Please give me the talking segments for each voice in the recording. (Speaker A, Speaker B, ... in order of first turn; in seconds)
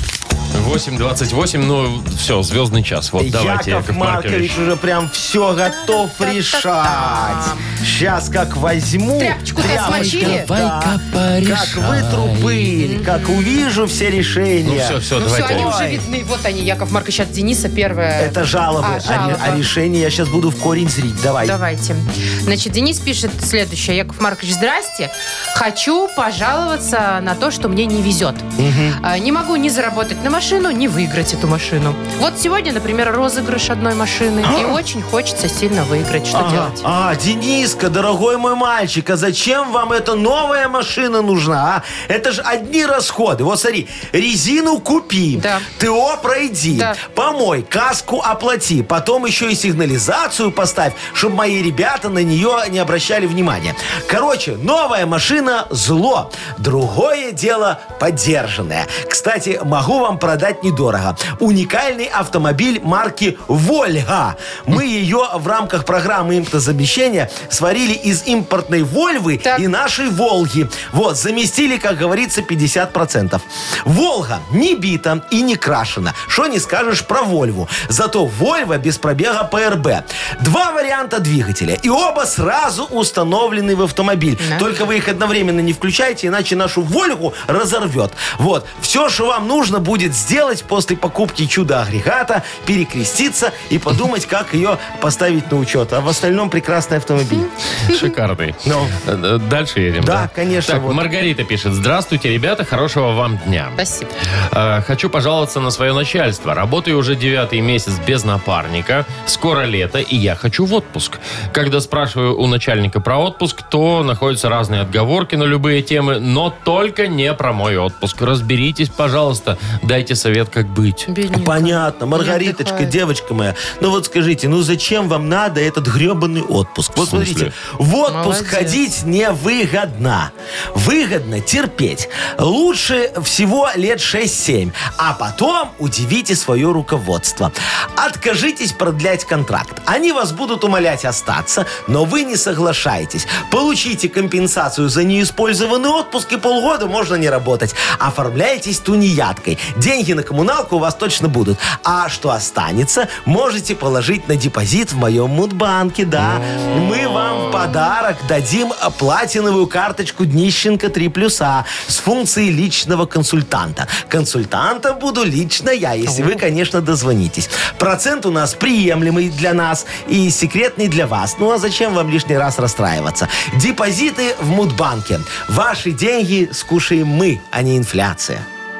Speaker A: 0.5-4.6, 9.6-12.8, 14.6-16.0, 97.9-103.8, 104.4-121.1, 127.0-127.5, 156.2-156.7
Speaker B: 3.2-15.8, 18.2-21.6, 28.6-29.0, 34.4-34.8, 36.3-97.5, 98.6-99.0, 100.0-101.1, 121.3-178.4
Speaker C: 5.7-7.7, 9.2-10.5, 12.8-13.3, 15.2-19.6, 21.4-28.5, 29.0-36.9, 45.4-45.7, 46.7-47.0, 84.4-84.7, 97.3-98.1, 103.8-104.1, 121.1-123.0, 128.1-128.8, 166.1-166.4